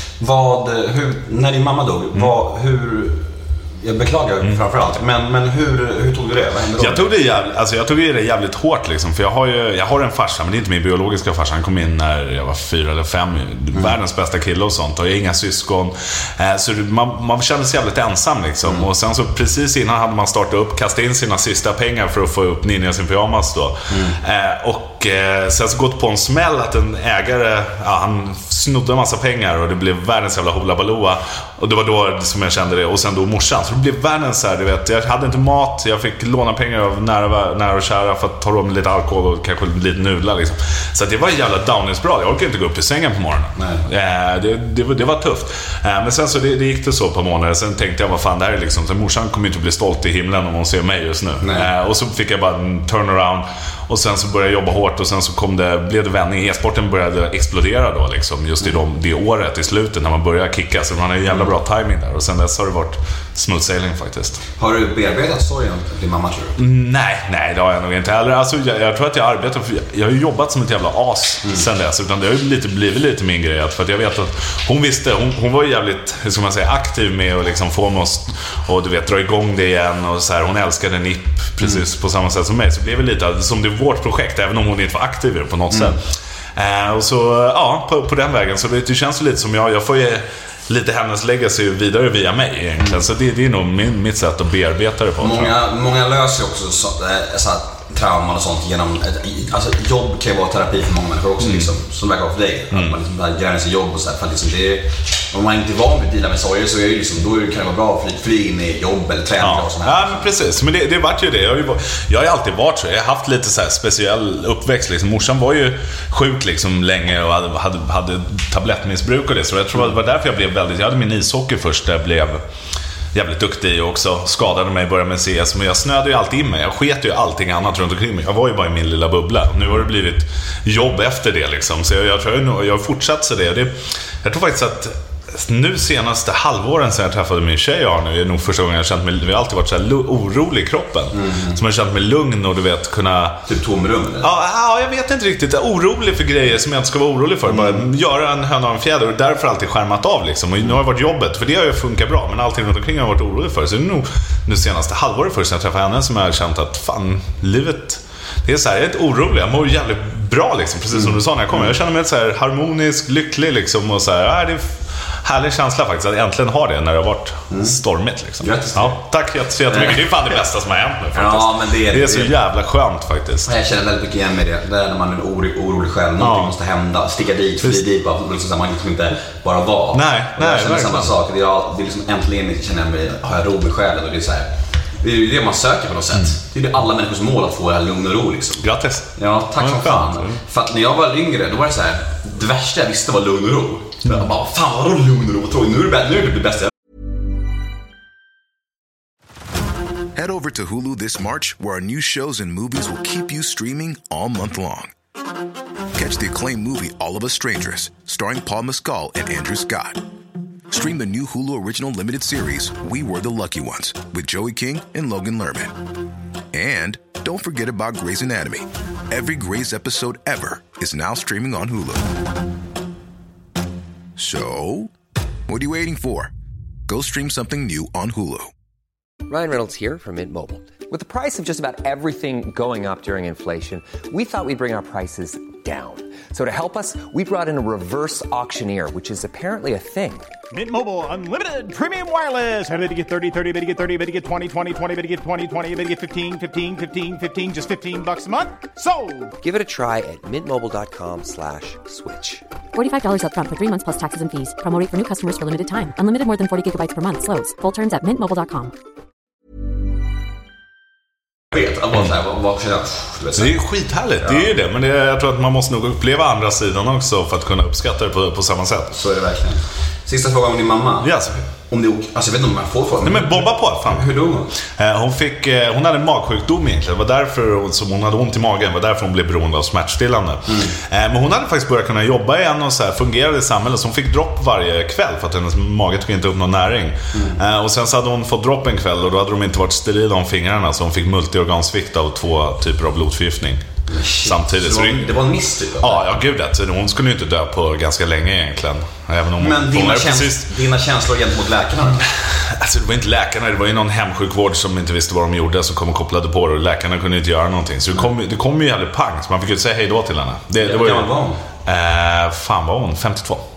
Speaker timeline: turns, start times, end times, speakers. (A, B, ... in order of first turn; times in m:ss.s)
0:00.2-0:07.1 A
0:06.8-1:04.4 B
0:23.9-0:24.2 A
0:43.6-0:43.8 A
0:51.4-0:51.7 A
1:04.6-1:06.6 A
1:06.6-1:26.0 B
1:25.7-1:26.0 A
1:26.6-1:35.6 B
1:35.2-1:50.3 A
1:41.4-1:41.7 B
1:42.7-1:43.0 B
1:49.4-2:02.4 B
2:03.1-2:23.4 B
2:21.1-2:21.6 A
2:23.5-2:24.3 A
2:24.2-2:53.5 B
2:27.5-2:27.9 A
2:40.9-2:41.7 A
2:47.5-2:47.8 A
2:48.4-2:49.0 A
2:49.7-2:50.1 A
2:51.1-2:52.3 A
2:53.4-3:16.7 A
2:56.2-2:56.5 B
2:59.9-3:01.1 B
3:08.6-3:10.4 B
3:20.2-3:24.9 C
3:26.0-3:30.0 C
3:30.7-3:35.8 C
3:36.5-3:42.1 C
3:44.2-3:44.9 C
3:45.5-3:46.3 C
3:46.9-3:48.5 C
3:49.3-4:00.3 D
4:00.5-4:09.3 E
4:09.4-4:12.4 D
4:12.8-4:18.7 F
4:21.5-4:23.6 A
4:23.4-4:28.9 B
4:24.2-4:24.5 A
4:28.9-4:34.5 A
4:31.0-4:31.5 B
4:33.0-4:34.1 B
4:34.6-4:53.7 B
4:40.5-4:40.7 A
4:47.1-4:47.4 A
4:53.9-4:56.1 A
4:54.2-4:55.2 B
4:55.8-5:00.5 B
4:59.4-5:02.0 A
5:02.0-5:11.1 B
5:10.6-5:11.4 A
5:11.6-5:13.4 B